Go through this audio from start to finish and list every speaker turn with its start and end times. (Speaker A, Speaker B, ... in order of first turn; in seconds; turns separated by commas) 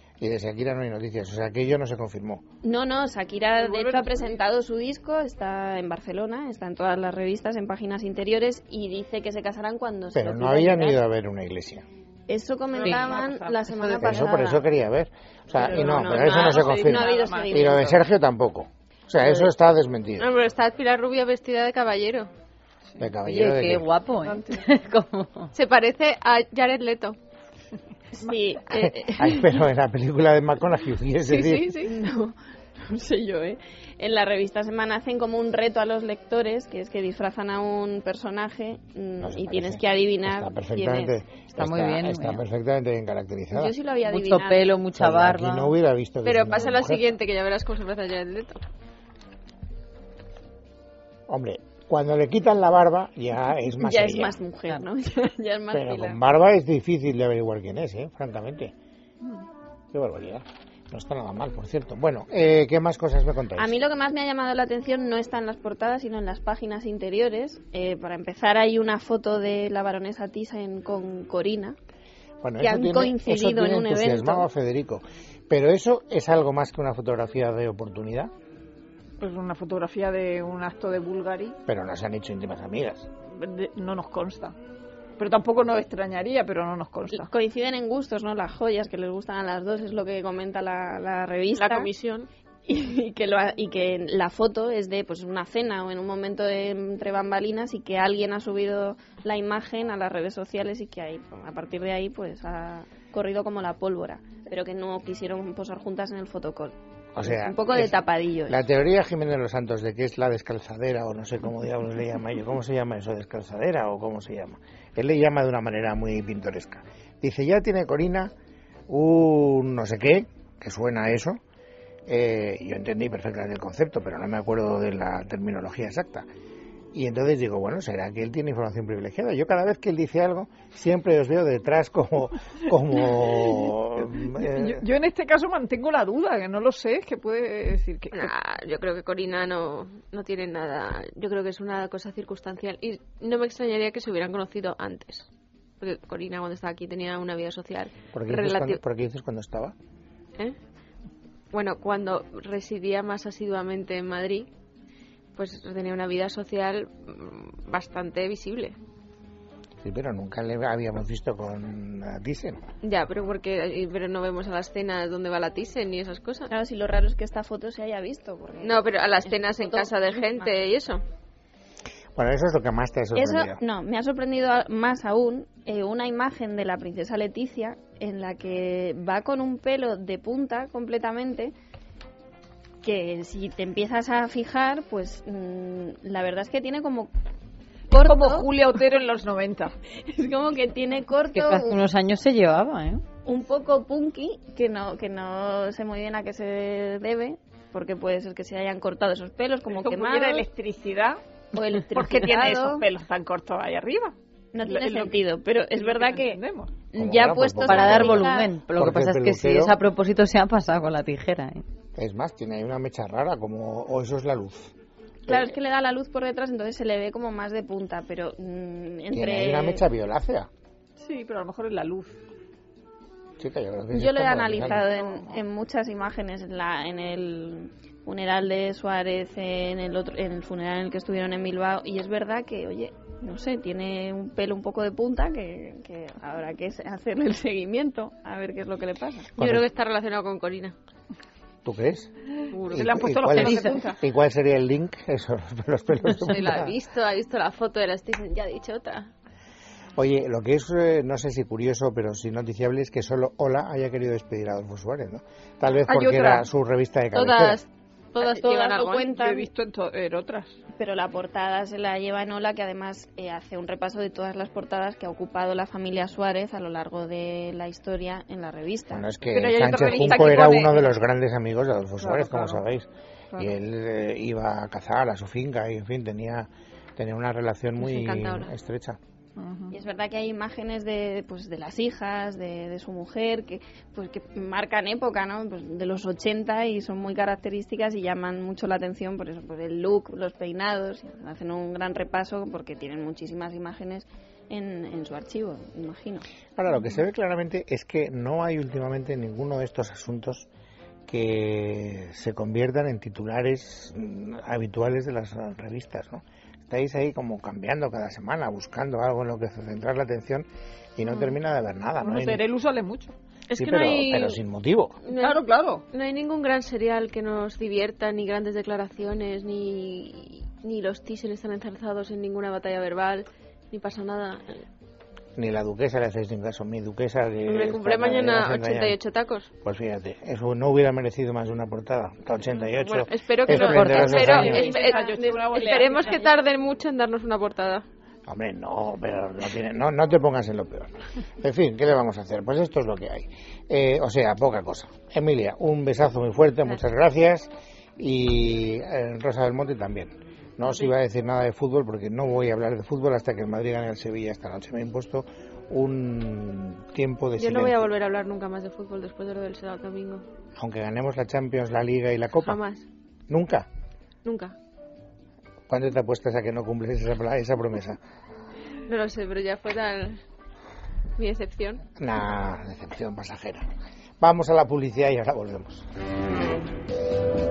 Speaker A: 0.2-2.4, Speaker B: 2.6-11.0, Speaker C: 3.6-4.4, Speaker A: 10.2-11.8, Speaker B: 12.3-14.7, Speaker C: 12.8-14.2, Speaker A: 14.0-20.3, Speaker C: 15.6-18.0, Speaker B: 15.7-17.9, Speaker D: 20.2-22.3, Speaker A: 23.0-23.9, Speaker E: 23.2-25.5, Speaker C: 24.2-24.6, Speaker D: 25.5-27.2, Speaker B: 28.1-29.6, Speaker A: 28.7-31.8, Speaker D: 31.3-31.9, Speaker B: 31.8-41.2, Speaker A: 39.2-43.8, Speaker E: 41.5-42.4, Speaker B: 43.5-44.8, Speaker E: 44.0-45.7, Speaker A: 44.9-47.1, Speaker D: 46.2-48.6, Speaker A: 51.3-54.4, Speaker B: 53.8-56.2, Speaker A: 55.7-58.7, Speaker A: 59.9-63.8, Speaker B: 63.6-71.8, Speaker A: 72.4-78.3, Speaker B: 72.6-74.5, Speaker C: 79.2-81.6, Speaker A: 81.7-83.1, Speaker C: 83.3-84.5, Speaker C: 85.2-87.3, Speaker B: 87.2-91.9, Speaker D: 91.6-92.3, Speaker B: 92.7-108.6, Speaker A: 107.2-118.3, Speaker A: 118.9-121.4, Speaker A: 122.1-126.3, Speaker A: 126.9-134.8, Speaker C: 134.2-138.3, Speaker D: 138.1-145.3, Speaker D: 145.8-148.8, Speaker A: 148.1-149.8, Speaker D: 151.5-154.5, Speaker D: 155.4-158.8, Speaker A: 159.8-162.6, Speaker D: 162.8-166.5, Speaker B: 166.5-170.5, Speaker D: 168.6-171.0, Speaker A: 172.2-173.6, Speaker B: 173.2-181.5, Speaker B: 182.8-187.1, Speaker B: 187.9-188.5, Speaker C: 188.0-189.8, Speaker B: 190.0-191.8, Speaker E: 191.3-193.0, Speaker B: 193.2-200.5, Speaker C: 199.7-201.2, Speaker B: 201.5-202.9, Speaker C: 201.9-205.2, Speaker B: 204.5-208.5, Speaker C: 205.8-206.7, Speaker A: 206.9-209.8, Speaker E: 207.7-211.6, Speaker A: 212.0-214.7, Speaker A: 215.3-215.5, Speaker B: 215.3-219.9, Speaker A: 219.1-220.5, Speaker C: 221.0-222.2, Speaker A: 223.4-224.8, Speaker B: 223.9-239.3, Speaker C: 224.8-225.4, Speaker A: 239.4-239.7, Speaker D: 239.4-240.8, Speaker A: 241.7-242.1, Speaker D: 242.5-242.9, Speaker C: 242.7-244.0, Speaker A: 242.7-246.7, Speaker D: 246.2-249.1, Speaker A: 250.0-257.6, Speaker C: 255.9-256.5, Speaker D: 257.1-259.1, Speaker B: 258.2-259.5, Speaker C: 258.6-260.6, Speaker B: 260.8-269.1, Speaker A: 268.9-279.0, Speaker C: 269.3-270.9, Speaker C: 272.0-272.6, Speaker D: 277.8-278.5, Speaker C: 279.4-279.8, Speaker B: 279.7-296.2, Speaker A: 296.6-300.5, Speaker A: 301.1-312.4, Speaker C: 312.0-313.1, Speaker D: 313.5-314.4, Speaker A: 313.6-315.0, Speaker D: 315.1-315.4, Speaker C: 315.1-315.8, Speaker D: 315.9-324.6, Speaker A: 325.4-329.0, Speaker D: 327.5-329.5, Speaker A: 329.6-334.7, Speaker D: 332.5-337.9, Speaker E: 333.5-334.7, Speaker C: 334.2-336.4, Speaker A: 338.3-357.9, Speaker D: 350.7-350.9, Speaker D: 357.4-360.2, Speaker A: 360.6-362.6, Speaker D: 362.4-362.9, Speaker A: 363.3-363.7, Speaker D: 364.2-364.6, Speaker A: 365.7-368.0, Speaker D: 368.9-370.2, Speaker D: 371.2-371.8, Speaker A: 372.0-373.7, Speaker A: 374.2-375.9